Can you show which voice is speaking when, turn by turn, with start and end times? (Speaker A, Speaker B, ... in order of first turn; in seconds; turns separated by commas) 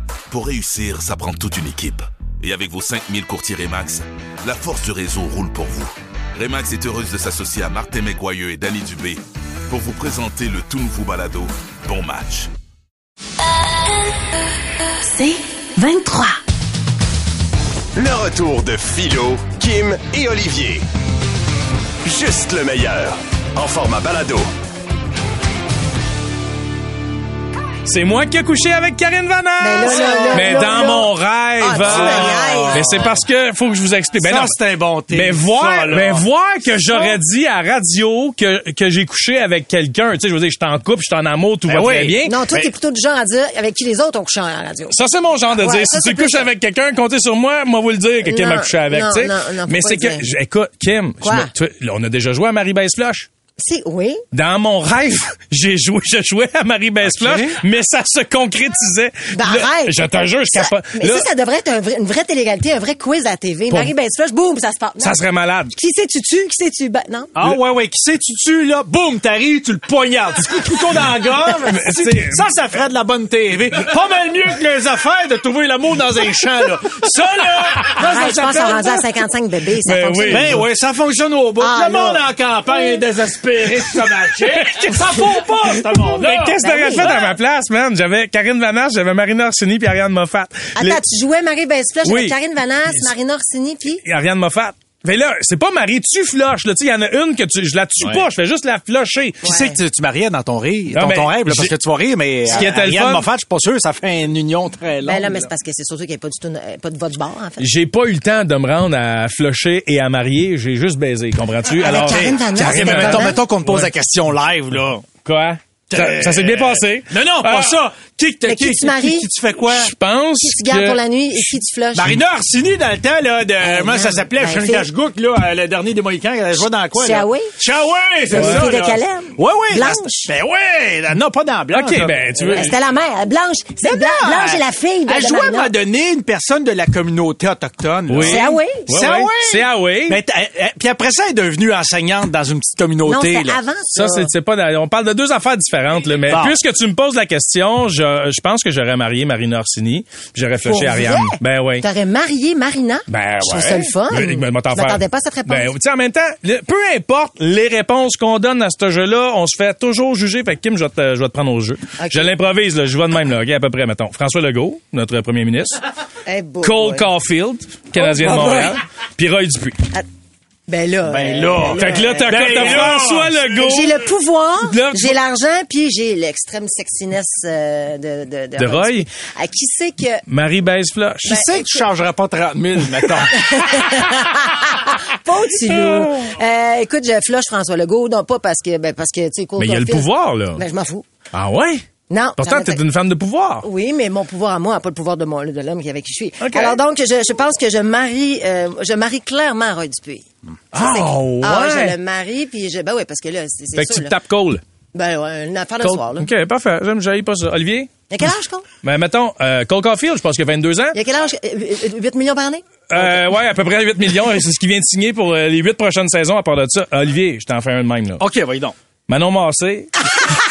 Speaker A: 0.3-12.5, Speaker B: 15.8-16.3, Speaker C: 18.0-20.9, Speaker C: 22.0-24.5, Speaker D: 27.9-34.6, Speaker B: 29.6-33.1, Speaker E: 30.0-30.7, Speaker E: 31.8-33.1, Speaker E: 34.2-36.2, Speaker D: 35.1-42.7, Speaker B: 36.9-37.2, Speaker E: 41.7-42.2, Speaker B: 42.2-45.0, Speaker D: 44.9-53.3, Speaker B: 45.5-46.5, Speaker B: 48.2-50.2, Speaker B: 51.2-51.5, Speaker B: 53.6-54.2, Speaker D: 54.3-61.3, Speaker E: 57.0-57.6, Speaker B: 59.3-65.2, Speaker D: 65.0-65.7, Speaker B: 65.7-67.3, Speaker E: 67.4-79.0, Speaker D: 71.7-72.5, Speaker B: 78.0-80.6, Speaker D: 79.8-80.6, Speaker E: 80.3-87.3, Speaker B: 81.6-82.2, Speaker D: 86.1-91.0, Speaker B: 86.6-87.2, Speaker B: 90.8-94.0, Speaker D: 92.0-92.4, Speaker D: 94.0-99.5, Speaker E: 99.4-105.5, Speaker B: 99.4-99.8, Speaker D: 100.9-101.7, Speaker D: 102.5-103.3, Speaker B: 105.0-107.7, Speaker D: 107.6-113.9, Speaker B: 111.8-113.4, Speaker E: 111.8-115.0, Speaker D: 115.2-117.8, Speaker E: 115.9-119.9, Speaker B: 118.5-119.3, Speaker D: 119.7-121.5, Speaker B: 120.4-122.2, Speaker E: 121.9-132.7, Speaker B: 123.6-124.9, Speaker B: 127.0-127.5, Speaker B: 128.3-130.3, Speaker D: 128.3-128.7, Speaker D: 131.7-132.7, Speaker B: 132.4-135.7, Speaker E: 133.8-143.6, Speaker D: 138.1-140.2, Speaker B: 138.2-138.9, Speaker B: 143.0-144.3, Speaker D: 143.9-151.8, Speaker E: 146.3-146.6, Speaker B: 150.6-155.7, Speaker D: 153.1-165.8, Speaker B: 162.0-162.3, Speaker B: 166.3-167.1, Speaker D: 166.6-169.9, Speaker B: 167.9-168.8, Speaker B: 170.7-172.9, Speaker E: 171.0-173.3, Speaker D: 171.8-174.1, Speaker B: 173.5-180.2, Speaker D: 174.6-175.2, Speaker D: 178.6-179.1, Speaker D: 180.3-181.4, Speaker E: 181.2-183.4, Speaker B: 181.3-181.8, Speaker B: 183.3-191.1, Speaker D: 185.7-186.3, Speaker D: 189.6-190.6, Speaker D: 191.3-191.8, Speaker B: 192.1-192.8, Speaker D: 192.4-193.7, Speaker B: 193.6-204.1, Speaker D: 196.4-196.8, Speaker D: 200.7-201.9, Speaker D: 203.7-204.6, Speaker B: 204.9-206.3, Speaker D: 205.8-207.9, Speaker B: 208.1-208.6, Speaker D: 208.8-210.9, Speaker B: 210.9-213.1, Speaker D: 212.9-218.2, Speaker E: 218.2-218.7, Speaker D: 219.1-219.9